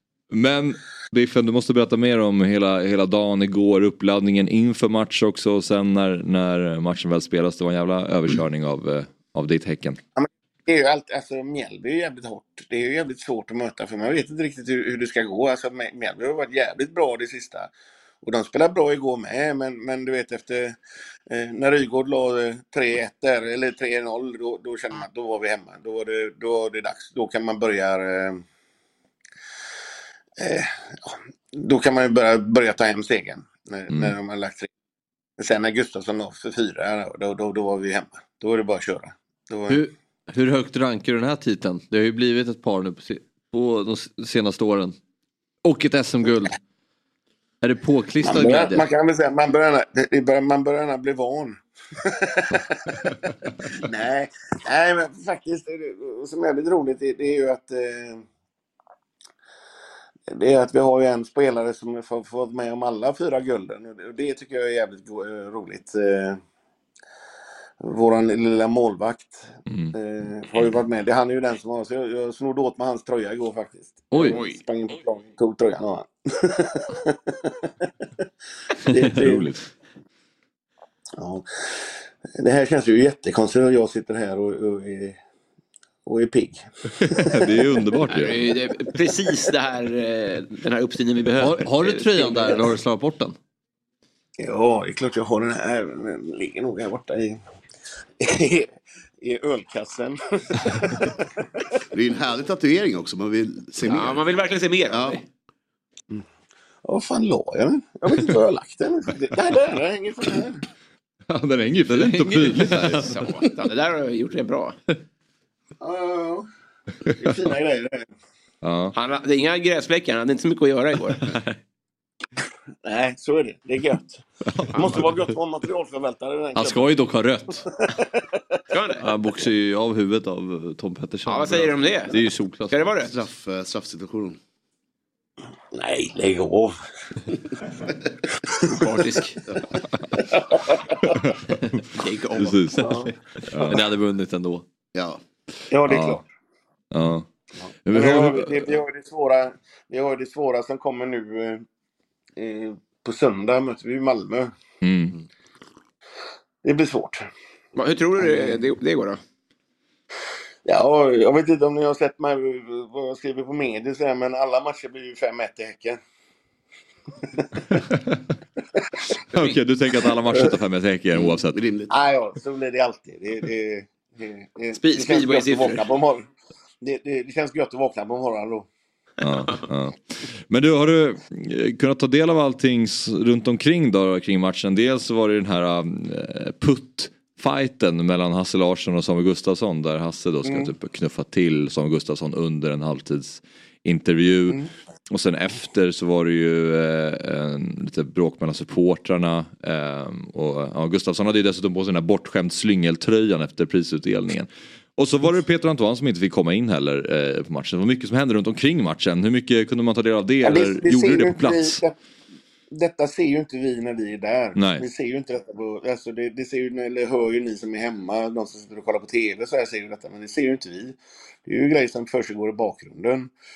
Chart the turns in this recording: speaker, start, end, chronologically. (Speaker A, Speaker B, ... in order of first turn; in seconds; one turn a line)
Speaker A: 0.3-10.0
Speaker B: 10.2-17.7
Speaker B: 18.2-20.8
Speaker B: 21.3-28.4
Speaker B: 30.4-34.7
Speaker B: 35.4-39.8
Speaker C: 39.7-45.0
Speaker C: 45.6-46.6
Speaker C: 47.6-48.9
Speaker B: 48.2-53.1
Speaker B: 53.7-58.2
Speaker B: 60.3-66.4
Speaker B: 67.8-77.9
Speaker A: 69.7-70.0
Speaker C: 74.1-74.4
Speaker D: 74.3-74.6
Speaker B: 78.9-79.5
Speaker A: 78.9-79.6
Speaker B: 81.2-85.2
Speaker B: 86.0-87.5
Speaker A: 87.0-88.5
Speaker D: 88.1-92.6
Speaker C: 91.4-93.3
Speaker B: 94.4-97.4
Speaker B: 98.2-101.4
Speaker E: 101.9-104.3
Speaker D: 103.8-105.2
Speaker E: 104.9-105.2
Speaker B: 106.8-110.6
Speaker A: 111.3-113.1
Speaker D: 112.0-114.8
Speaker C: 112.2-113.1
Speaker B: 115.8-116.5
Speaker B: 117.2-118.0
Speaker A: 118.6-119.0
Speaker D: 118.9-121.3
Speaker B: 122.8-127.0
Speaker A: 124.5-125.1
Speaker D: 124.7-125.0
Speaker C: 126.5-127.7
Speaker B: 127.8-128.4
Speaker D: 128.7-129.0
Speaker C: 129.0-132.9
Speaker D: 131.3-132.2
Speaker D: 132.7-133.1
Speaker E: 133.0-134.4
Speaker B: 135.7-136.8
Speaker D: 138.7-139.4
Speaker B: 140.2-140.9
Speaker A: 141.0-141.4
Speaker D: 142.0-143.0
Speaker A: 142.3-143.8
Speaker B: 142.8-143.1
Speaker C: 143.6-144.7
Speaker E: 144.9-145.2
Speaker B: 145.7-146.2
Speaker A: 145.9-146.2
Speaker A: 146.9-147.3
Speaker A: 147.9-148.7
Speaker B: 147.9-151.6
Speaker B: 152.4-154.5
Speaker A: 154.8-155.2
Speaker B: 156.6-157.3
Speaker D: 157.8-159.2
Speaker B: 158.2-158.6
Speaker B: 160.7-166.0
Speaker B: 167.3-167.8
Speaker A: 167.7-168.2
Speaker A: 169.3-171.6
Speaker B: 170.3-170.5
Speaker E: 171.1-171.9
Speaker B: 171.9-176.3
Speaker D: 174.8-175.8
Speaker B: 176.8-178.7
Speaker A: 179.2-211.8
Speaker B: 190.5-190.7
Speaker B: 210.4-211.9
Speaker B: 212.7-223.3
Speaker A: 214.6-214.9